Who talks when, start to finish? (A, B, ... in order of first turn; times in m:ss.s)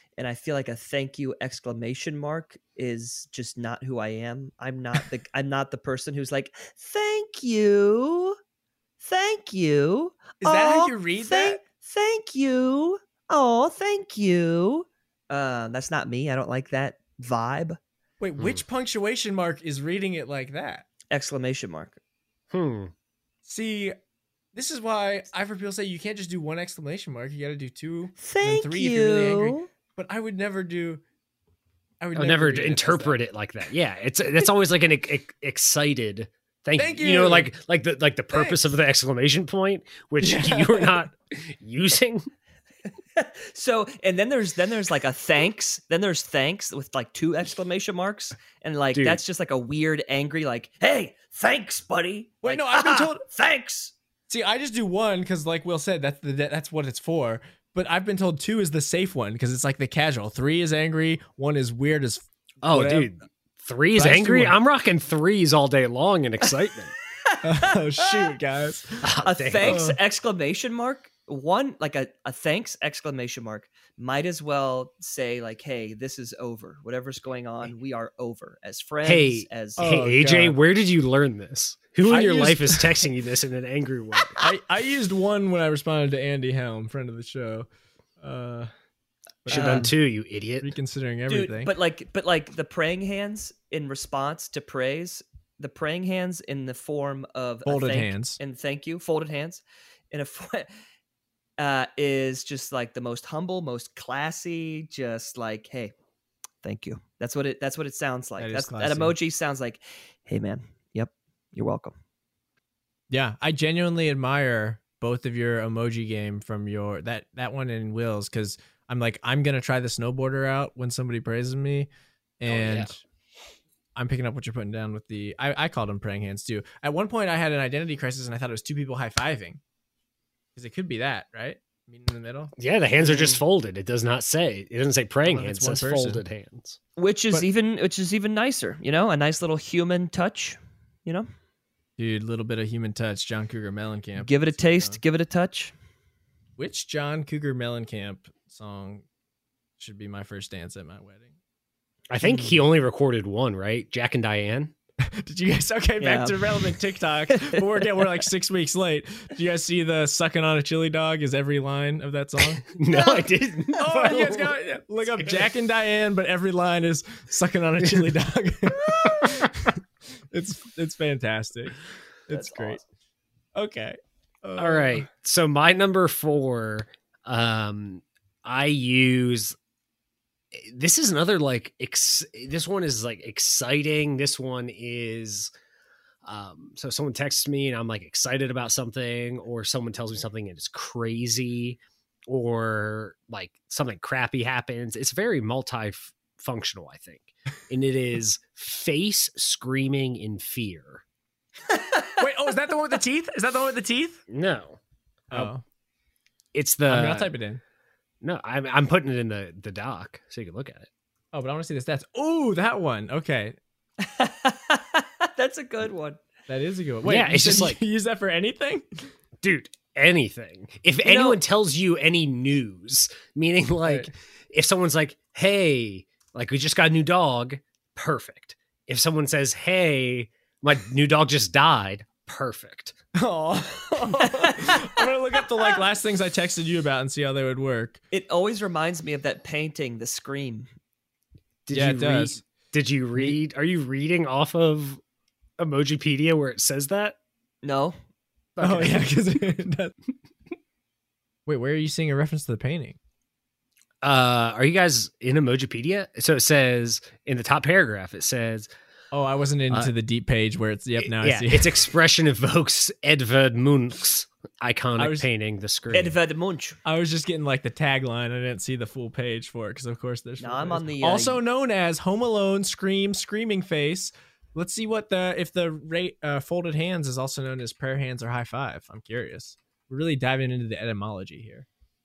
0:00.2-0:08.4 A
0:09.0-0:17.8 A
0:10.4-0:11.6 B
0:18.2-0:20.9 B
0:21.1-0:22.0 A
0:22.5-0:22.9 C
0:23.4-0:24.0 B
0:24.5-0:31.0 B
0:28.2-0:29.7 A
0:32.0-0:33.2 B
0:32.2-0:42.3 C
0:36.8-0:37.5 B
0:40.2-0:41.0 B
0:43.2-0:53.9 A
0:48.9-0:49.2 C
0:52.4-0:53.2 B
0:54.3-1:03.1 B
1:02.6-1:07.0 C
1:04.0-1:04.6 B
1:07.3-1:08.3 A
1:07.4-1:09.1 B
1:09.0-1:09.8 C
1:09.2-1:19.9 A
1:09.6-1:10.0 B
1:19.0-1:24.5 C
1:19.8-1:20.6 B
1:22.0-1:23.0 B
1:24.4-1:27.7 B
1:28.2-1:28.7 B
1:29.4-1:30.0 B
1:29.5-1:30.7 C
1:29.5-1:29.9 A
1:30.6-1:31.7 B
1:31.3-1:40.7 A
1:37.7-1:38.4 B
1:41.6-1:45.9 A
1:46.6-1:52.0 A
1:48.4-1:49.2 B
1:53.1-2:03.0 B
2:02.5-2:02.9 C
2:04.0-2:09.6 B
2:10.6-2:13.4 B
2:12.6-2:16.8 C
2:15.2-2:16.2 B
2:17.0-2:21.3 A
2:22.0-2:25.0 B
2:24.2-2:25.7 A
2:26.6-2:29.0 B
2:29.8-2:31.3 B
2:32.1-2:34.7 C
2:32.2-2:32.6 B
2:35.0-2:42.6 B
2:36.0-2:36.5 A
2:37.3-2:37.9 A
2:42.7-2:44.5 C
2:42.9-2:43.3 A
2:43.8-2:51.8 B
2:52.3-2:52.8 B
2:52.3-2:52.8 A
2:53.6-2:55.1 B
2:54.6-2:59.6 C
3:00.5-3:05.5 C
3:06.2-3:21.0 C
3:22.2-3:24.2 B
3:24.3-3:24.8 C
3:25.3-3:25.6 B
3:26.5-3:27.3 C
3:26.9-3:27.6 B
3:28.2-3:30.9 C
3:31.3-3:33.6 B
3:34.0-3:36.2 A
3:36.5-3:39.1 B
3:37.0-3:37.8 C
3:39.4-3:53.0 C
3:41.0-3:41.4 A
3:43.8-3:44.1 B
3:53.2-3:58.0 B
3:54.2-3:55.0 A
3:58.1-4:00.7 A
4:01.7-4:05.0 C
4:01.7-4:02.4 B
4:05.6-4:07.2 C
4:07.6-4:08.0 A
4:08.6-4:09.0 C
4:08.6-4:10.0 B
4:11.5-4:13.0 B
4:14.0-4:18.7 C
4:19.1-4:21.8 B
4:21.1-4:26.2 C
4:25.0-4:25.3 B
4:25.9-4:26.8 A
4:26.8-4:41.7 B
4:30.4-4:31.4 A